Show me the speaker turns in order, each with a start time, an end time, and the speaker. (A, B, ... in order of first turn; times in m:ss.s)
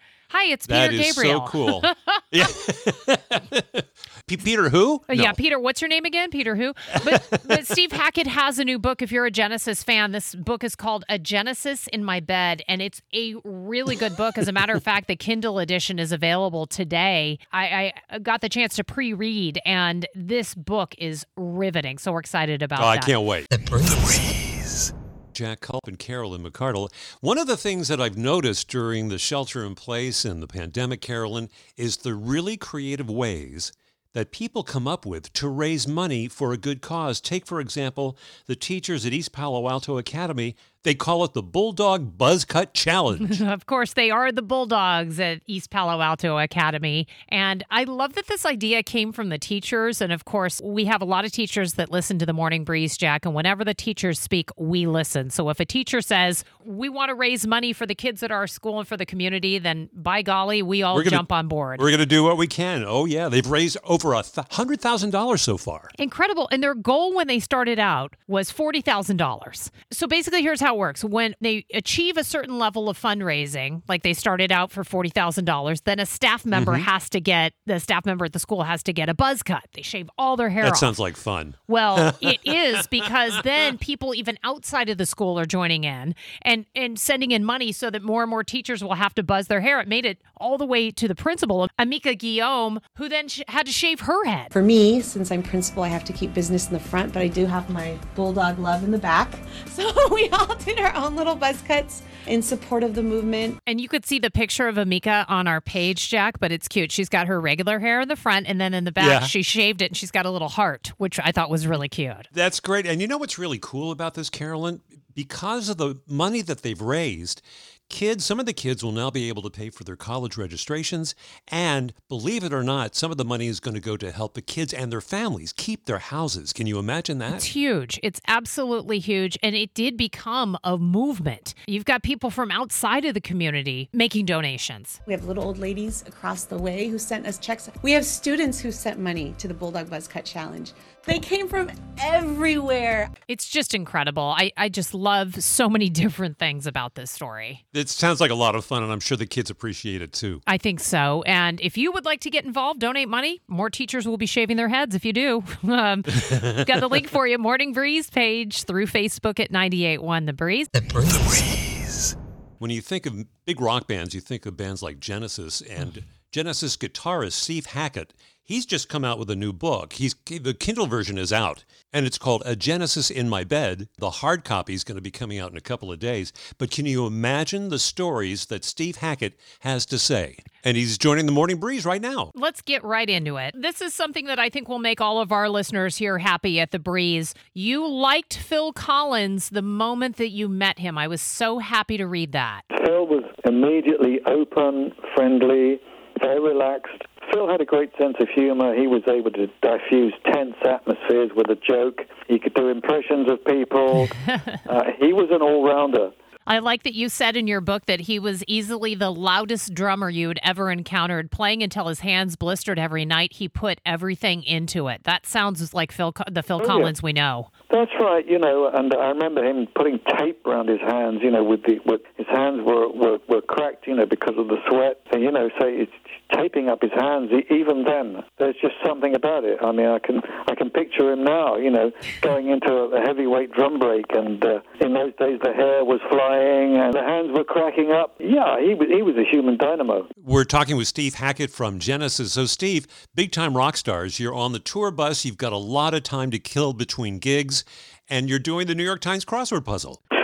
0:00.3-0:02.2 A
0:00.7-0:05.4 B
0:05.1-0:23.2 A
0:22.8-0:43.4 B
0:43.2-1:01.9 A
1:00.9-1:05.9 B
1:05.9-1:21.0 A
1:16.5-1:16.9 B
1:20.6-1:22.8 B
1:21.7-1:34.5 A
1:34.5-1:43.6 C
1:43.6-1:52.3 A
1:49.0-1:49.3 B
1:52.3-2:07.4 B
2:07.3-2:15.0 A
2:15.0-2:23.1 C
2:23.3-2:27.6 A
2:27.7-2:30.4 B
2:30.4-2:40.7 A
2:40.9-3:02.3 B
3:02.3-3:12.6 A
3:12.7-3:26.1 D
3:26.4-3:37.5 A
3:36.6-3:36.9 D
3:37.7-4:00.1 D
4:00.2-4:10.0 B